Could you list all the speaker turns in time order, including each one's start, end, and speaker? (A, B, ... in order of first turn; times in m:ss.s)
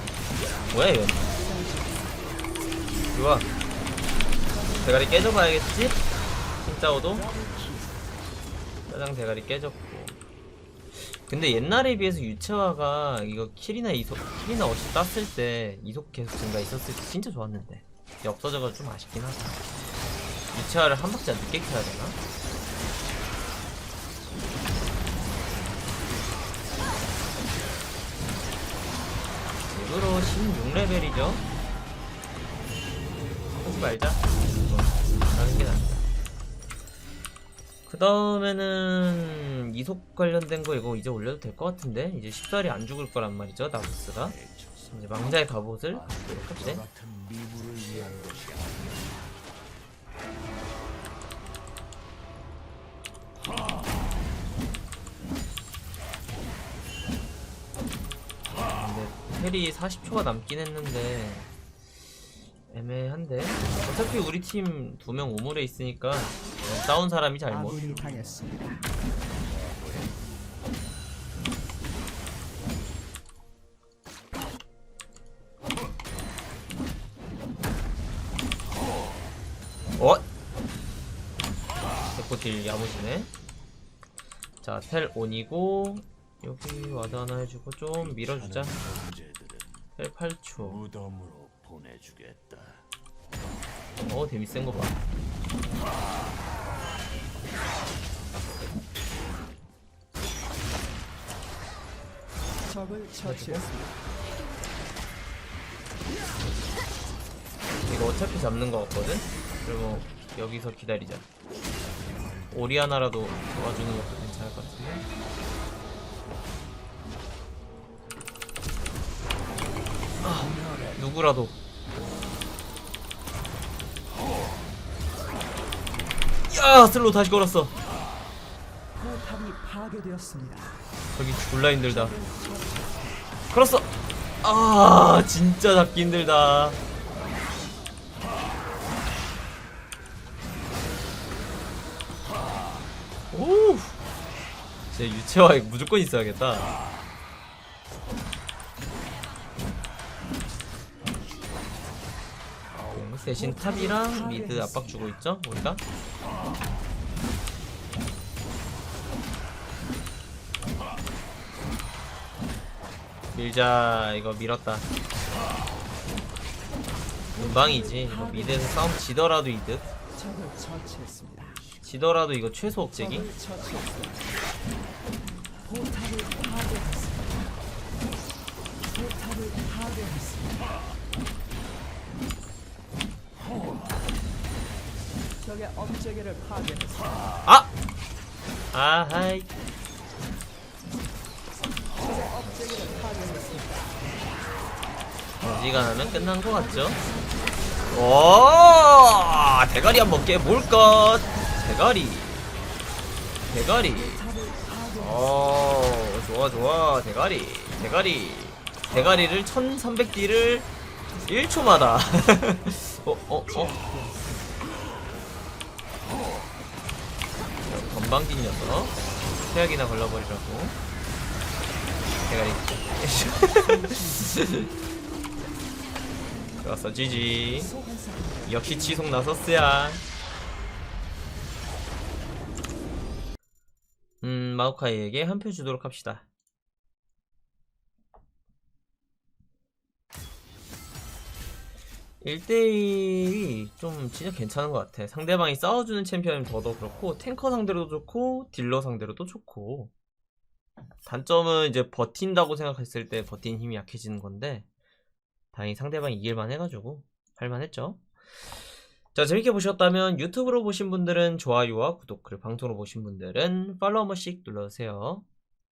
0:00.7-0:01.3 A
0:01.2-0:02.1 B
0:03.1-0:03.5 A
0:04.4-0:05.4 B
0:04.8-0:06.0 A
0:06.6-0:07.2 A
0:07.0-0:08.0 B
0:08.9-0:10.2 A
0:10.9-0:19.6 A
0:20.5-0:22.2 A
0:29.7-0:31.4 A
0:33.6-0:36.0 A
0:37.8-0:44.4 A
0:44.1-0:45.2 C
0:44.9-0:46.8 A
0:45.9-0:49.5 C
0:58.7-1:01.5 A
1:02.7-1:07.9 A
1:07.5-1:08.9 B
1:07.6-1:08.5 C
1:09.1-1:10.9 C
1:20.0-1:20.2 A
1:22.1-1:23.3 A
1:24.6-1:28.8 A
1:27.9-1:30.0 C
1:30.0-1:30.8 A
1:30.6-1:32.9 C
1:34.0-1:35.0 A
1:42.6-1:44.1 B
1:43.2-1:43.6 A
1:47.9-1:51.2 A
1:52.5-1:55.0 A
2:00.2-2:01.6 A
2:00.2-2:01.0 C
2:06.5-2:07.7 A
2:08.9-2:10.8 B
2:11.2-2:12.1 A
2:11.8-2:13.2 B
2:13.5-2:13.9 A
2:14.4-2:16.8 A
2:23.3-2:24.0 A
2:24.9-2:26.7 A
2:31.2-2:33.8 C
2:32.9-2:35.8 A
2:33.3-2:35.2 B
2:43.3-2:44.9 A
2:47.2-2:48.9 B
2:47.4-2:49.9 A
2:50.1-2:51.6 B
2:51.4-2:52.2 C
2:51.8-2:53.3 A
2:52.7-2:54.3 B
2:55.2-2:55.7 C
2:55.6-2:57.4 B
2:58.8-3:00.8 B
3:03.3-3:04.2 C
3:05.4-3:07.4 B
3:07.4-3:07.7 A
3:08.7-3:09.5 A
3:11.9-3:14.2 B
3:15.4-3:17.0 A
3:15.8-3:17.7 B
3:17.9-3:22.4 A
3:20.2-3:21.5 B
3:23.5-3:24.2 A
3:23.9-3:25.4 B
3:25.0-3:30.7 A
3:31.2-3:33.7 A
3:33.5-3:34.6 B
3:37.7-3:40.8 A
3:42.2-3:44.7 A
3:43.4-3:44.4 B
3:46.6-3:47.7 A
3:47.5-3:49.4 B
3:48.4-3:50.0 A
3:54.2-3:56.2 A
4:02.2-4:09.9 A
4:11.0-4:14.6 A
4:15.5-4:18.0 A
4:19.1-4:25.2 A